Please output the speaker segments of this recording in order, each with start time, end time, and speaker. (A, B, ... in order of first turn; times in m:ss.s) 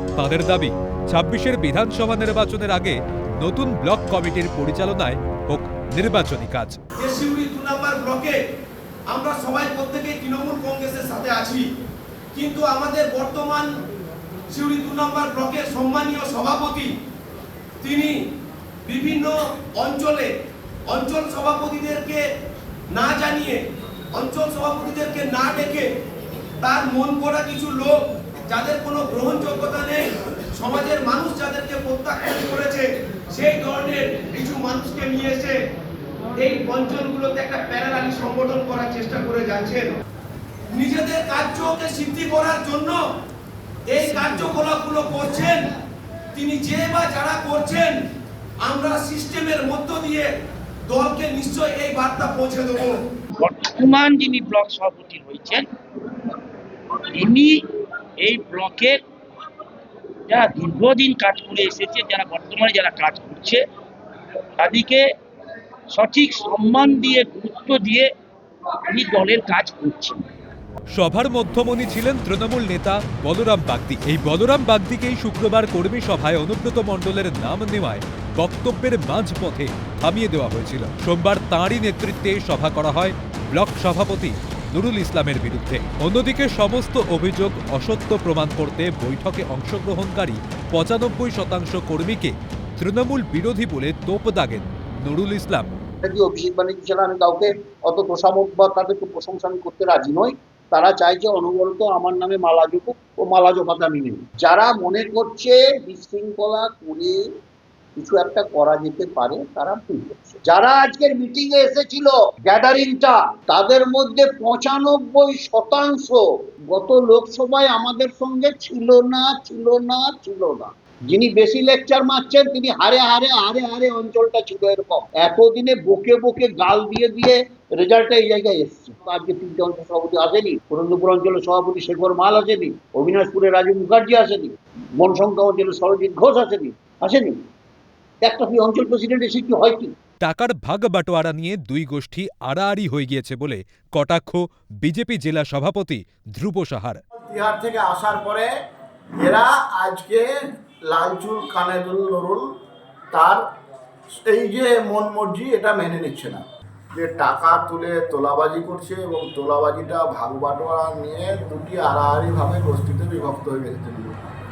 0:00.2-0:06.8 A
0:07.0-0:08.4 B
0:09.1-0:11.6 B
0:12.3-0:13.8 B
0:14.5-0:16.9 B
0:17.8-0:18.2 B
0:18.8-0:20.3 B
0:20.9-0:22.2 B
0:22.9-0:23.6 B
0:24.1-0:25.9 B
0:26.6-0:28.0 B
0:28.5-0:35.6 B
0:36.4-0:40.0 B
0:40.7-0:43.0 B
0:43.9-0:45.7 B
0:46.3-0:48.0 B
0:48.6-0:50.3 B
0:50.9-0:53.0 B
0:53.4-0:55.7 C
0:57.1-0:57.6 C
0:58.2-0:59.0 C
1:00.3-1:03.6 C
1:04.6-1:05.1 C
1:05.9-1:08.1 C
1:08.9-1:10.3 C
1:10.9-1:35.7 A
1:36.0-1:47.2 D
1:48.0-2:17.4 D
2:18.2-2:19.9 D
2:20.2-2:27.0 A
2:27.2-2:28.5 E
2:29.2-2:30.3 E
2:30.9-2:32.5 E
2:33.1-2:33.4 E
2:34.2-2:36.4 E
2:37.0-2:44.2 E